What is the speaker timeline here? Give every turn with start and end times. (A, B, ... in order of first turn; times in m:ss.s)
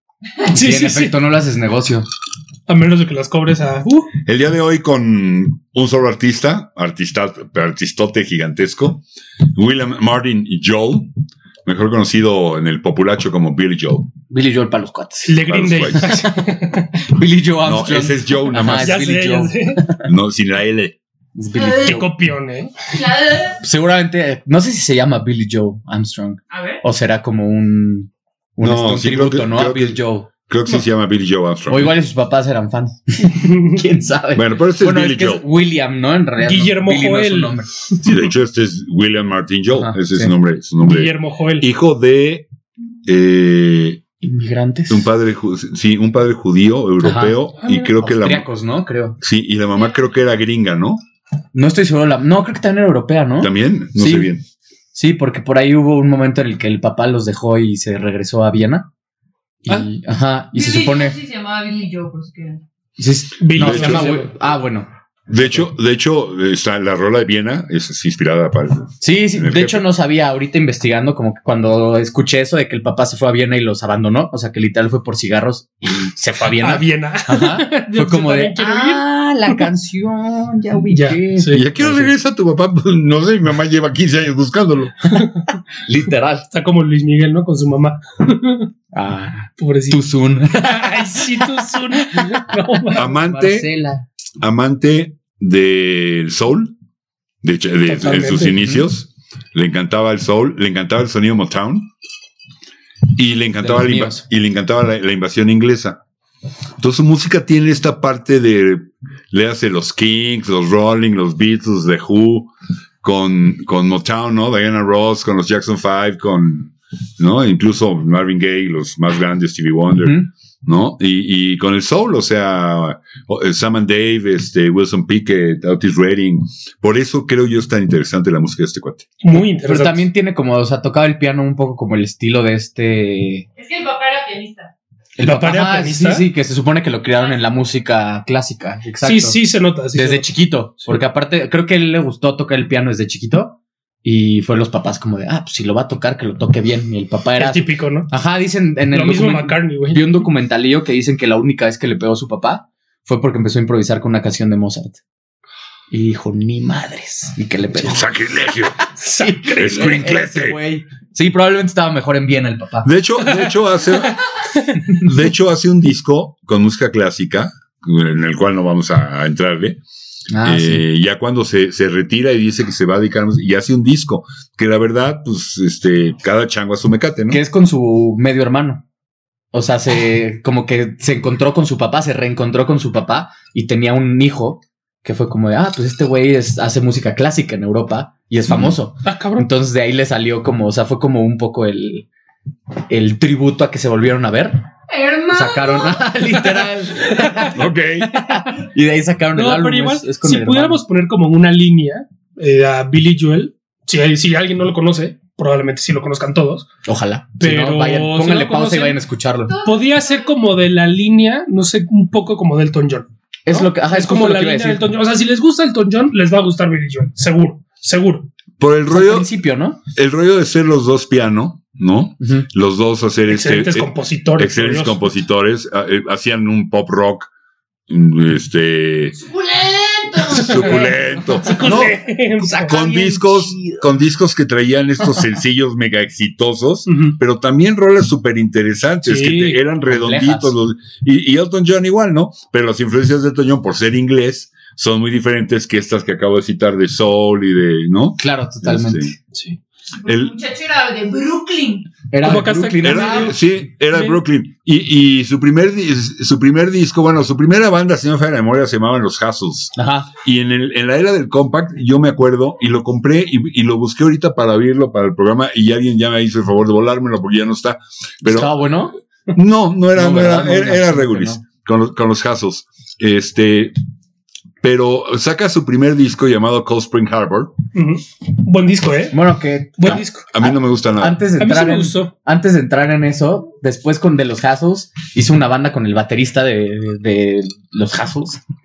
0:00.5-0:01.2 A
0:00.5-0:02.1 B
0:02.7-0:04.1 A
0:04.2-0:11.1 C
0:11.6-0:14.1 C
0:14.3-0:15.4 B
0:15.2-0:16.9 A
0:15.4-0:16.2 C
0:16.1-0:20.0 B
0:17.6-0:19.0 C
0:18.7-0:19.8 A
0:20.0-0:21.0 C
0:21.4-0:22.1 B
0:21.6-0:22.0 D
0:21.8-0:22.9 A
0:22.9-0:23.6 D
0:23.6-0:30.3 B
0:26.5-0:26.8 D
0:28.6-0:32.0 C
0:31.7-0:37.8 B
0:34.3-0:35.4 C
0:36.4-0:37.6 A
0:38.0-0:42.5 C
0:39.7-0:40.3 B
0:40.8-0:41.7 A
0:43.1-0:44.0 C
0:44.2-0:45.1 B
0:44.9-0:48.5 C
0:47.0-0:47.4 B
0:47.6-0:47.9 A
0:48.0-0:49.2 B
0:49.2-0:51.0 C
0:49.7-0:50.1 D
0:51.5-0:54.3 B
0:53.4-0:54.4 C
0:54.9-0:58.9 B
0:59.7-1:01.2 B
1:00.5-1:02.6 D
1:03.0-1:05.6 B
1:03.4-1:04.3 A
1:03.6-1:04.2 C
1:05.3-1:09.9 C
1:09.0-1:22.1 B
1:16.6-1:19.6 A
1:20.9-1:21.6 A
1:21.5-1:25.0 C
1:25.2-1:25.5 A
1:25.8-1:26.5 B
1:26.5-1:28.7 A
1:28.9-1:34.0 B
1:29.6-1:30.0 A
1:30.5-1:33.0 A
1:32.9-1:33.7 C
1:34.4-1:36.7 C
1:37.4-1:41.9 C
1:37.9-1:38.6 A
1:38.6-1:38.9 B
1:43.2-1:46.0 C
1:43.6-1:44.2 B
1:46.8-1:52.5 C
1:53.0-2:09.1 C
2:00.0-2:00.3 B
2:09.2-2:10.0 A
2:09.6-2:13.4 B
2:13.6-2:14.7 D
2:15.2-2:19.4 B
2:15.2-2:16.3 A
2:17.2-2:17.4 D
2:19.0-2:20.3 A
2:20.0-2:35.0 B
2:27.4-2:28.1 A
2:28.9-2:30.3 A
2:35.9-2:38.1 B
2:37.8-2:38.8 C
2:39.0-2:40.1 A
2:39.0-2:42.9 B
2:39.6-2:40.6 C
2:42.8-2:44.2 C
2:43.2-2:44.8 A
2:45.0-2:49.8 C
2:50.3-2:50.8 B
2:50.4-2:57.4 C
2:57.3-2:58.8 B
2:59.5-3:12.1 B
3:09.0-3:09.5 A
3:12.9-3:14.6 B
3:14.9-3:16.0 D
3:15.3-3:20.8 B
3:17.5-3:18.1 C
3:19.4-3:26.7 A
3:26.9-3:29.6 B
3:27.4-3:29.0 A
3:29.5-3:30.3 D
3:29.6-3:38.3 A
3:33.5-3:34.9 B
3:38.6-3:39.3 C
3:38.9-3:39.8 B
3:39.9-3:47.3 C
3:42.2-3:42.5 B
3:43.3-3:45.0 A
3:47.9-3:49.2 C
3:49.2-3:51.0 D
3:50.3-4:09.1 C
3:50.4-3:50.9 A
3:51.2-3:51.8 B
3:51.4-3:52.7 A
3:52.4-3:53.8 B
3:56.9-3:57.2 A
3:59.1-3:59.6 A
3:59.9-4:00.6 B
4:08.2-4:09.2 B
4:09.3-4:09.6 A
4:10.0-4:11.9 D
4:10.1-4:10.4 C
4:12.1-4:13.4 B
4:12.2-4:14.2 A
4:12.8-4:28.8 C
4:19.8-4:20.1 B
4:28.2-4:29.0 B
4:29.3-4:33.7 C
4:29.9-4:31.4 B
4:34.6-4:37.6 C
4:37.8-4:39.2 A
4:39.1-4:48.4 B
4:39.8-4:40.3 A
4:39.9-4:41.2 C
4:41.4-4:42.1 A